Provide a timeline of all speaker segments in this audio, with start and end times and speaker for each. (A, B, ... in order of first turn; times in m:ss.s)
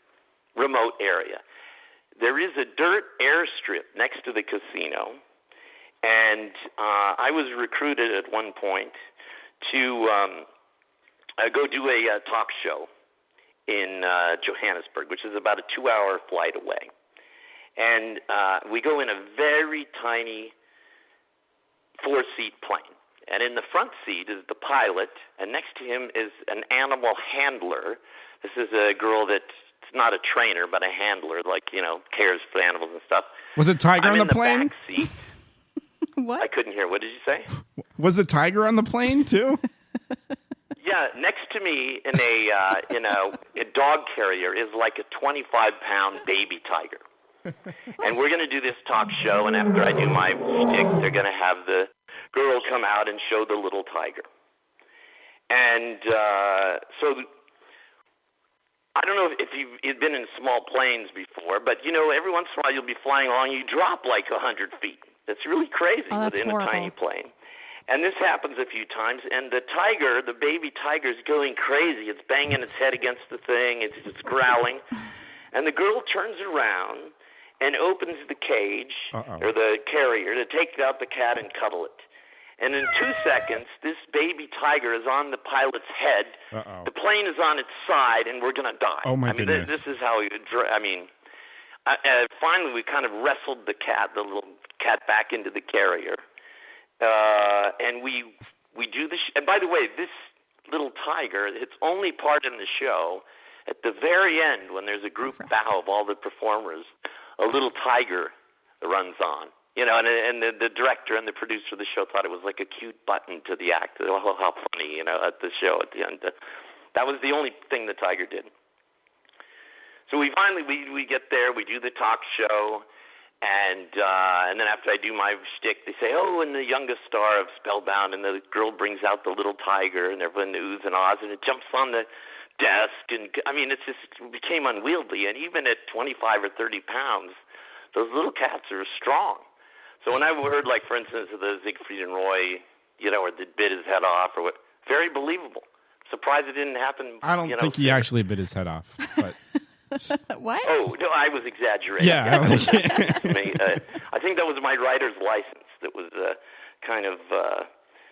0:00.6-0:01.4 A
0:02.2-0:05.2 A
0:06.0-0:09.0 A
0:09.6-0:10.5 A
0:11.4-0:12.9 A
0:13.7-0:16.9 A
0:17.8-0:20.5 A
0:22.0-0:33.3 A
0:33.6-0:34.7 B
0:34.0-0:35.1 A
0:36.2-0:36.5 C
0:36.4-0:37.5 A
0:38.0-0:39.6 B
0:40.8-0:47.0 A
0:48.0-0:54.2 A
0:55.5-0:57.3 A
0:59.0-1:07.3 A
1:06.1-1:06.9 C
1:07.9-1:14.8 A
1:15.5-1:22.0 A
1:19.1-1:19.5 B
1:22.6-1:31.1 A
1:26.5-1:26.9 B
1:29.0-1:29.8 B
1:31.9-1:36.2 A
1:37.0-1:40.1 A
1:40.7-1:56.3 A
1:57.0-1:58.5 A
2:00.1-2:02.8 A
2:03.4-2:12.1 A
2:12.6-2:17.4 A
2:17.9-2:19.4 A
2:20.0-2:28.1 A
2:27.2-2:29.4 B
2:30.0-2:30.8 C
2:30.7-2:37.7 A
2:32.0-2:33.4 B
2:32.5-2:33.1 C